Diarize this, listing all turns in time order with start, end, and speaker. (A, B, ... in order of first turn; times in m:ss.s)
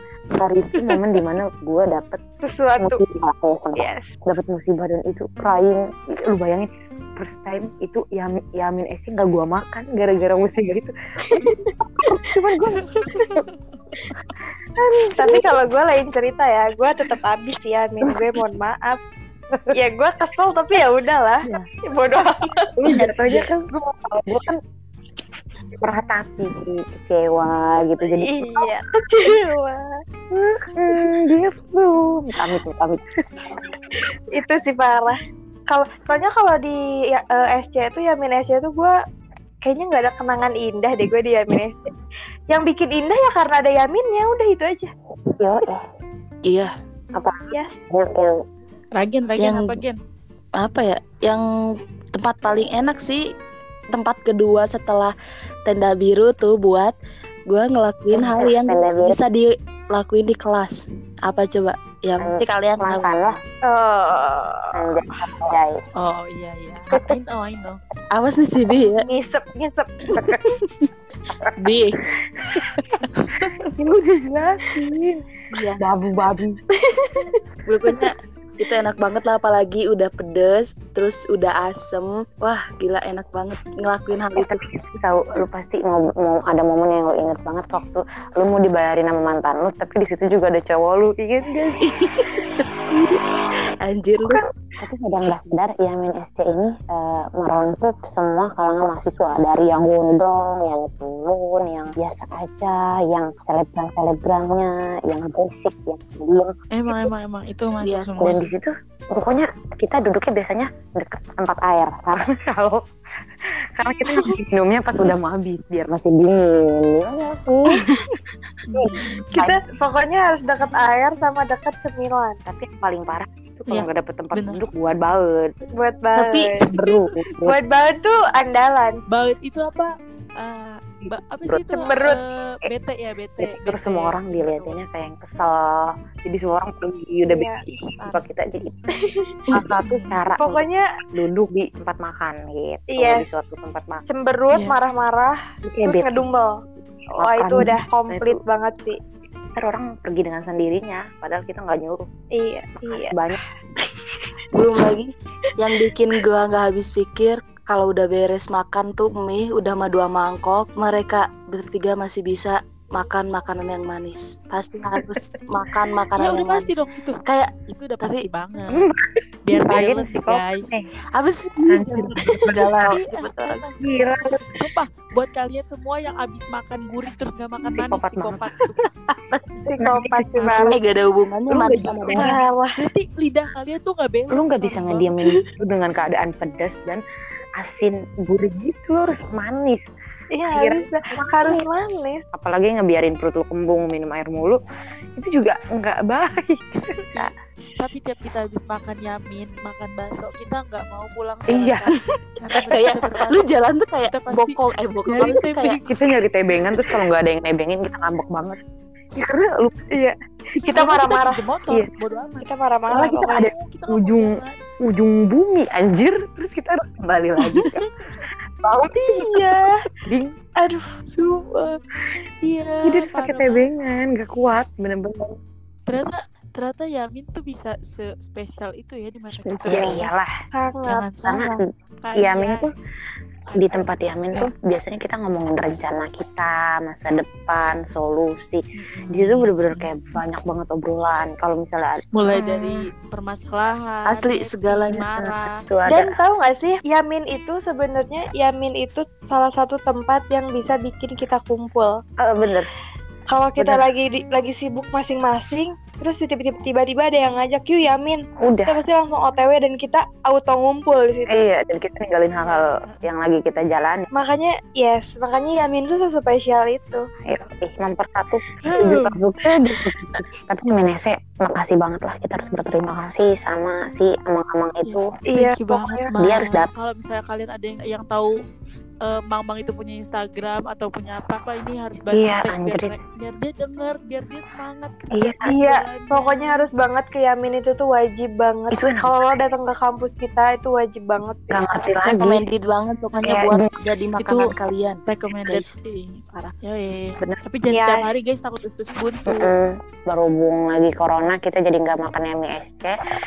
0:00.4-0:02.2 A
0:02.4-0:03.0 B
0:02.8-0:10.9 A
0:03.8-0:04.0 B
0:11.3-0:11.7 B
0:12.0-0:13.4 A
0:12.9-0:14.1 C
0:15.1-0:19.0 B
0:19.7-0:22.7 B
0:22.8-0:24.6 A
0:25.8-0:28.7 A
0:28.0-0:29.8 B
0:30.3-0:33.6 A
0:34.0-0:35.2 B
0:35.7-0:38.9 B
0:39.6-0:41.7 B
0:42.5-0:44.9 B
0:45.4-0:45.8 A
0:46.4-0:46.7 D
0:47.1-0:48.4 A
0:48.9-0:50.0 C
0:49.4-0:49.8 D
0:50.6-0:51.4 D
0:52.1-0:53.2 D
0:53.9-0:55.1 D
0:55.6-0:56.9 D
0:57.5-1:03.4 D
0:58.1-0:59.2 A
1:02.2-1:03.4 A
1:03.6-1:04.7 B
1:04.7-1:05.8 A
1:06.0-1:07.8 C
1:06.9-1:07.2 A
1:08.1-1:09.1 D
1:08.9-1:10.0 B
1:10.1-1:10.5 D
1:10.1-1:10.4 A
1:11.6-1:12.0 D
1:13.2-1:13.6 C
1:13.8-1:15.2 A
1:15.5-1:15.8 D
1:15.8-1:16.6 A
1:17.7-1:24.6 D
1:24.4-1:31.8 A
1:31.9-1:32.2 D
1:33.8-1:34.4 D
1:34.2-1:46.5 A
1:46.7-1:48.5 C
1:47.8-1:48.4 D
1:48.2-1:52.8 A
1:53.8-1:57.8 A
1:58.7-1:59.2 C
1:58.8-2:02.4 B
1:59.3-1:59.6 A
2:02.4-2:05.6 A
2:03.7-2:04.6 C
2:05.8-2:06.7 B
2:06.2-2:06.5 D
2:06.7-2:07.0 C
2:06.7-2:07.6 A
2:07.4-2:09.0 B
2:09.1-2:14.8 C
2:11.0-2:11.6 A
2:11.7-2:12.2 B
2:13.4-2:17.5 A
2:17.3-2:17.6 B
2:17.6-2:18.2 C
2:18.0-2:18.9 A
2:19.0-2:19.3 B
2:19.5-2:24.0 A
2:19.8-2:20.2 C
2:20.4-2:20.8 B
2:22.9-2:23.3 B
2:24.1-2:25.3 B
2:24.5-2:24.8 C
2:25.6-2:26.2 A
2:25.8-2:26.5 B
2:27.1-2:28.4 A
2:27.2-2:29.0 B
2:29.5-2:32.1 A
2:32.4-2:33.1 B
2:32.9-2:33.4 A
2:34.5-2:48.3 D
2:46.2-2:48.8 C
2:48.7-2:50.9 A
2:49.4-2:50.7 C
2:51.1-2:53.7 D
2:51.7-2:53.0 A
2:52.9-2:53.7 C
2:53.8-2:54.5 A
2:54.5-2:58.8 C
2:57.7-2:58.5 A
2:58.8-2:59.4 D
2:59.6-3:00.8 A
2:59.8-3:00.8 B
3:00.4-3:02.3 D
3:01.5-3:02.3 A
3:01.5-3:02.8 B
3:02.8-3:05.1 C
3:04.3-3:07.0 A
3:07.6-3:09.9 A
3:10.3-3:12.2 B
3:10.5-3:11.6 A
3:12.3-3:14.6 A
3:15.2-3:17.3 A
3:17.1-3:23.4 C
3:21.5-3:21.9 A
3:22.7-3:25.8 D
3:24.0-3:25.9 C
3:25.8-3:28.6 A
3:29.2-3:29.8 A
3:29.9-3:31.4 B
3:30.7-3:32.5 C
3:32.4-3:33.5 B
3:32.9-3:37.9 A
3:33.3-3:34.6 C
3:37.7-3:38.2 C
3:38.6-3:39.5 A
3:38.9-3:39.7 B
3:40.1-3:40.4 A
3:41.1-3:41.8 C
3:42.4-3:43.7 C
3:42.8-3:45.4 A
3:45.9-3:50.1 C
3:49.3-3:50.0 D
3:49.6-3:50.3 A
3:50.5-3:51.6 B
3:50.8-3:51.5 C
3:51.2-3:51.6 A
3:52.0-3:52.7 C
3:52.2-3:52.7 A
3:53.5-3:54.5 C
3:53.5-4:02.8 A
3:58.8-4:00.2 C
4:02.1-4:05.6 C
4:04.0-4:05.0 D
4:04.9-4:06.2 A
4:05.9-4:12.0 B
4:12.2-4:12.7 A
4:13.3-4:21.3 B
4:13.6-4:13.9 A
4:18.4-4:18.8 A
4:21.3-4:24.1 A
4:22.4-4:23.1 C
4:24.1-4:27.0 B
4:27.2-4:35.1 A
4:28.7-4:29.1 C
4:34.8-4:38.3 C
4:35.3-4:36.1 B
4:36.1-4:36.7 A
4:39.1-4:46.7 C
4:42.1-4:43.0 A
4:45.1-4:45.6 A
4:45.4-4:51.6 B
4:48.7-4:49.2 A
4:51.5-4:52.4 A
4:52.0-4:55.7 D
4:53.1-4:53.8 A
4:54.1-4:54.5 C
4:55.1-4:59.5 C
4:57.7-4:58.1 B
4:59.3-5:02.9 A